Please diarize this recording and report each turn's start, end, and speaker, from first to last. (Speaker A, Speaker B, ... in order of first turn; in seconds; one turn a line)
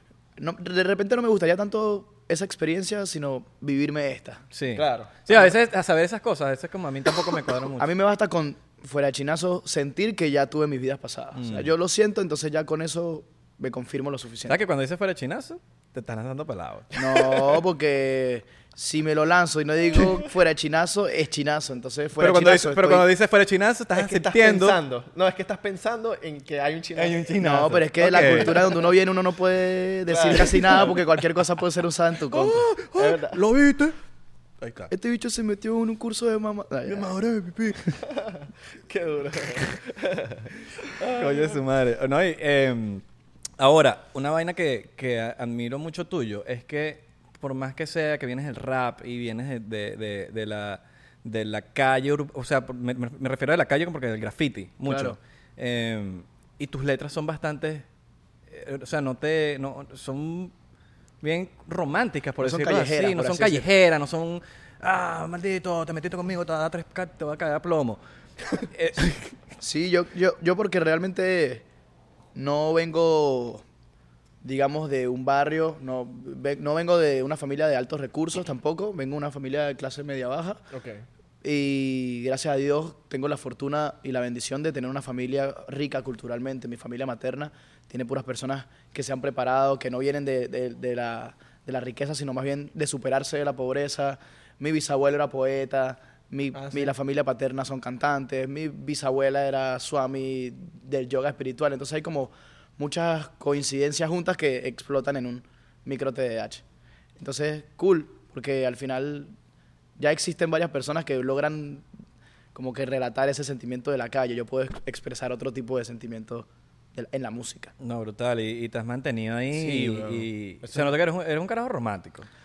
Speaker A: 0.4-4.4
Speaker B: 4.5-7.9
Speaker C: 4.8-5.1
Speaker A: 7.8-14.6
Speaker B: 11.3-11.7
Speaker B: 14.5-17.6
Speaker A: 17.0-23.1
Speaker B: 22.2-24.8
Speaker C: 23.9-27.4
Speaker B: 27.0-28.6
Speaker A: 27.4-32.6
Speaker C: 28.1-28.8
Speaker C: 30.1-31.0
Speaker B: 32.3-34.0
Speaker C: 33.0-33.4
Speaker B: 34.6-34.9
Speaker A: 34.9-37.1
Speaker B: 36.9-38.0
Speaker C: 38.1-41.6
Speaker B: 41.0-43.0
Speaker B: 43.6-57.9
Speaker A: 54.9-55.2
Speaker B: 58.5-60.5
Speaker B: 61.2-68.0
Speaker A: 62.4-63.7
Speaker B: 68.6-69.3
Speaker A: 69.6-71.7
Speaker A: 72.3-73.6
Speaker A: 74.4-80.6
Speaker C: 80.7-81.0
Speaker A: 81.4-106.6
Speaker C: 96.5-96.9
Speaker A: 107.2-109.3
Speaker A: 110.0-111.9
Speaker A: 112.5-117.7
Speaker B: 117.8-122.3
Speaker C: 119.5-120.9